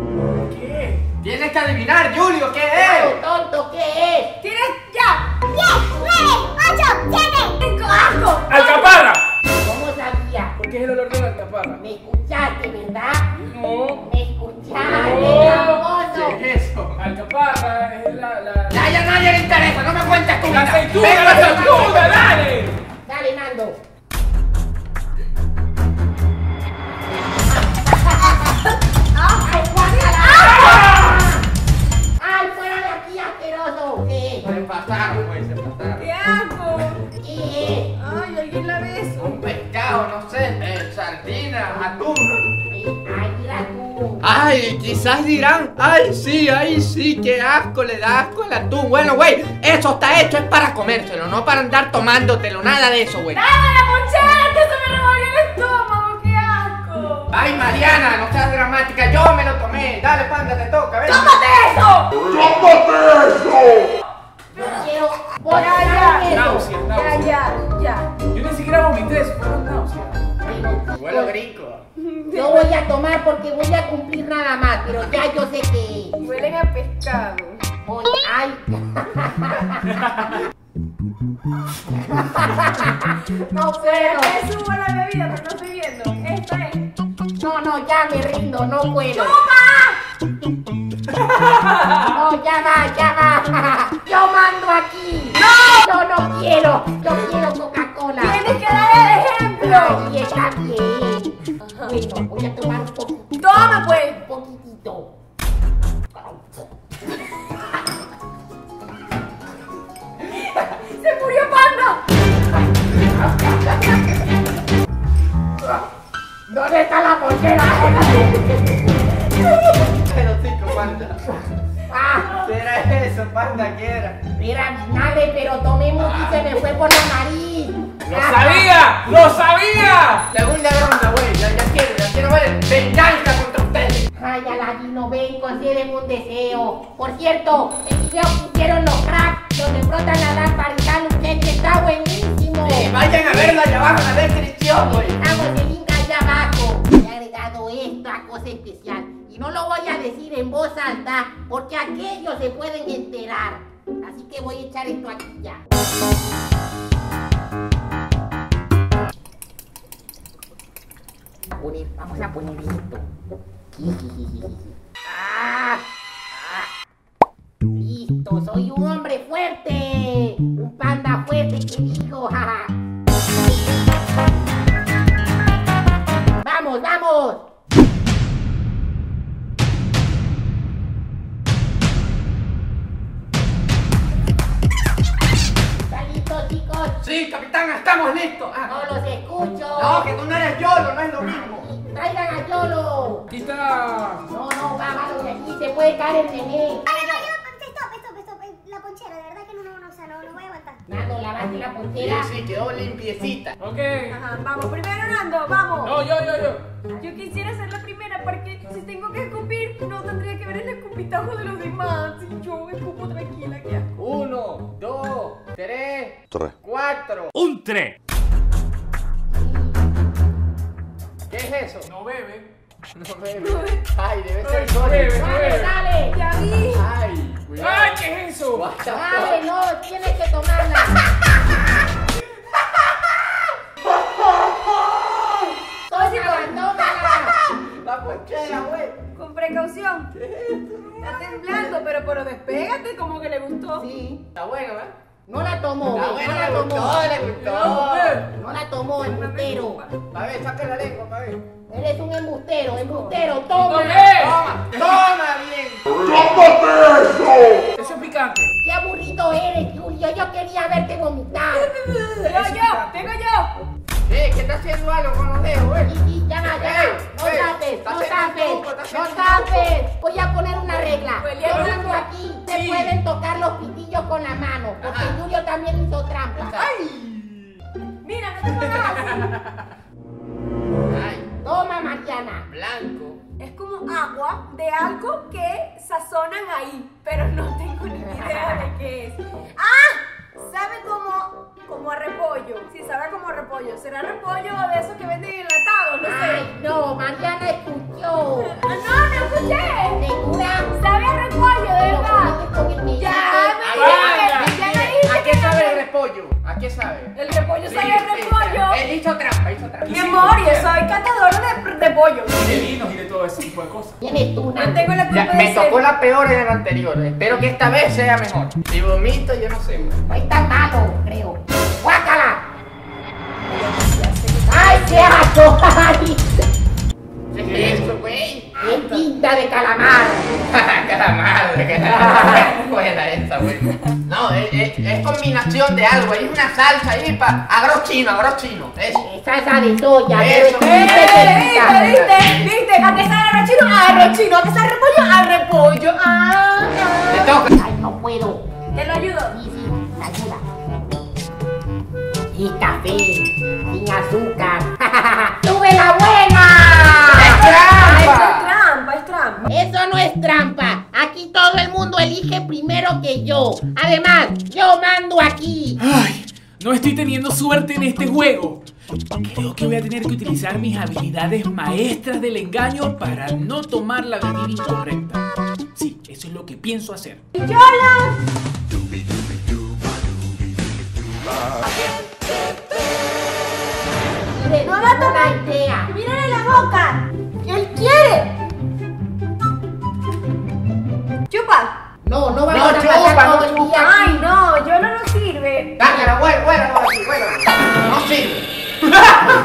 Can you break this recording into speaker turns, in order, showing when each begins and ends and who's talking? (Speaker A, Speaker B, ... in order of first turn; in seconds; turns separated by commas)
Speaker A: 0.5-1.0, Speaker B: 1.2-3.2, Speaker C: 2.8-4.3, Speaker D: 4.4-5.3, Speaker E: 5.5-7.5, Speaker D: 7.5-8.9, Speaker A: 8.5-9.2, Speaker C: 9.6-10.6, Speaker A: 10.6-11.8, Speaker C: 11.8-13.3, Speaker A: 13.4-14.0, Speaker C: 14.0-16.4, Speaker A: 14.8-15.9, Speaker B: 16.0-17.0, Speaker A: 17.0-18.8, Speaker B: 18.7-22.2, Speaker A: 20.4-22.8, Speaker C: 21.0-22.4, Speaker C: 23.0-23.8, Speaker C: 27.5-28.6, Speaker D: 28.6-30.8, Speaker C: 29.4-31.4, Speaker A: 30.7-31.1, Speaker C: 32.2-34.5, Speaker B: 34.5-36.0, Speaker D: 36.0-37.0, Speaker C: 37.2-37.9, Speaker D: 38.0-39.4, Speaker B: 39.2-42.5, Speaker C: 42.7-44.3, Speaker B: 44.2-53.4, Speaker D: 53.3-57.4, Speaker B: 57.3-61.3, Speaker D: 61.0-62.7, Speaker C: 64.5-66.7, Speaker D: 65.5-66.3, Speaker A: 66.2-67.3, Speaker D: 66.9-68.2, Speaker A: 68.3-70.2, Speaker C: 70.4-71.4, Speaker B: 70.9-71.8, Speaker D: 72.0-72.8, Speaker C: 72.3-76.2, Speaker D: 76.2-77.6, Speaker C: 77.8-80.3, Speaker C: 81.9-84.4, Speaker D: 83.8-86.9, Speaker C: 87.3-89.4, Speaker D: 89.1-90.0, Speaker C: 91.8-98.5, Speaker D: 95.3-95.9, Speaker D: 98.2-100.0, Speaker C: 99.6-105.1, Speaker D: 101.6-102.0, Speaker D: 103.4-104.2, Speaker D: 110.3-112.0, Speaker C: 113.2-113.8, Speaker C: 116.5-118.5, Speaker B: 120.0-121.2, Speaker C: 121.9-122.5, Speaker B: 122.4-124.2, Speaker C: 124.3-128.7, Speaker B: 126.0-126.5, Speaker A: 128.1-130.3, Speaker B: 130.3-134.1, Speaker C: 134.2-143.6, Speaker B: 142.6-145.2, Speaker C: 144.7-155.6, Speaker C: 161.5-163.1, Speaker C: 163.7-166.7, Speaker C: 167.8-172.7, Speaker C: 176.4-177.4, Speaker C: 185.8-186.9, Speaker B: 187.0-188.7, Speaker C: 188.7-190.1, Speaker B: 189.7-191.6, Speaker C: 191.3-193.3, Speaker A: 193.3-194.2, Speaker C: 194.3-196.9, Speaker E: 196.9-200.8, Speaker C: 200.9-202.3, Speaker B: 201.9-203.6, Speaker A: 203.6-204.2, Speaker D: 204.1-206.0, Speaker A: 205.8-206.6, Speaker D: 207.0-213.9, Speaker B: 214.0-217.3, Speaker A: 217.3-217.9, Speaker C: 219.3-219.7, Speaker B: 221.3-221.9, Speaker A: 221.8-222.5, Speaker B: 222.9-225.2, Speaker D: 223.4-223.8, Speaker A: 224.4-225.8, Speaker C: 225.1-226.2, Speaker D: 226.1-226.8, Speaker B: 226.7-227.9, Speaker A: 227.6-228.7, Speaker B: 228.5-229.4, Speaker C: 228.8-231.0, Speaker B: 233.9-235.3, Speaker C: 235.9-237.3, Speaker D: 235.9-237.1, Speaker B: 237.5-239.0, Speaker D: 239.1-240.1, Speaker B: 240.1-241.8, Speaker D: 241.0-243.9, Speaker C: 243.8-244.2, Speaker B: 244.3-244.9, Speaker C: 245.3-247.2, Speaker B: 245.9-248.2, Speaker A: 247.2-248.2, Speaker C: 248.3-249.8, Speaker D: 249.0-249.9, Speaker B: 250.1-251.4, Speaker C: 251.7-254.1, Speaker D: 252.8-253.2, Speaker A: 253.6-254.4, Speaker B: 254.2-256.4, Speaker C: 256.2-256.7, Speaker A: 257.7-258.5, Speaker C: 258.6-261.7, Speaker D: 261.5-263.5, Speaker A: 262.3-262.9, Speaker B: 264.1-269.7, Speaker C: 265.8-276.6, Speaker D: 270.9-272.1, Speaker A: 271.5-271.9, Speaker A: 272.5-272.9, Speaker B: 274.8-275.2, Speaker D: 276.4-277.4, Speaker D: 278.0-279.4, Speaker B: 280.9-281.3, Speaker C: 281.4-282.5, Speaker B: 282.5-283.2, Speaker D: 283.4-296.4, Speaker C: 288.0-288.7, Speaker C: 296.0-298.6, Speaker D: 298.4-300.1, Speaker C: 299.9-300.7, Speaker D: 300.7-302.4, Speaker C: 301.8-304.6, Speaker D: 302.9-305.8, Speaker B: 303.7-307.1, Speaker A: 303.7-304.3, Speaker D: 307.1-308.8, Speaker B: 307.7-310.0, Speaker A: 309.8-310.7, Speaker D: 309.9-312.6, Speaker A: 312.3-314.0, Speaker C: 314.0-314.9, Speaker D: 314.6-315.8, Speaker B: 315.1-319.9, Speaker C: 320.1-322.4, Speaker A: 323.4-324.7, Speaker C: 324.5-326.4, Speaker D: 324.6-325.1, Speaker B: 327.3-328.8, Speaker A: 327.4-327.8, Speaker C: 328.6-330.4, Speaker B: 330.5-339.1, Speaker C: 331.8-332.6, Speaker C: 339.0-342.0, Speaker B: 340.1-342.3, Speaker D: 340.6-347.5, Speaker B: 347.1-347.5, Speaker C: 347.5-348.4, Speaker D: 348.7-349.4, Speaker C: 349.3-350.4, Speaker C: 352.3-358.2, Speaker B: 357.1-358.5, Speaker D: 357.2-359.5, Speaker C: 359.4-365.8, Speaker A: 365.8-368.6, Speaker A: 369.2-377.2, Speaker D: 377.4-378.2, Speaker D: 381.4-383.0, Speaker C: 384.3-385.9, Speaker D: 384.6-388.3, Speaker D: 391.3-391.7, Speaker C: 392.0-394.2, Speaker B: 392.5-393.5, Speaker D: 393.5-395.8, Speaker B: 395.8-398.4, Speaker C: 395.8-396.1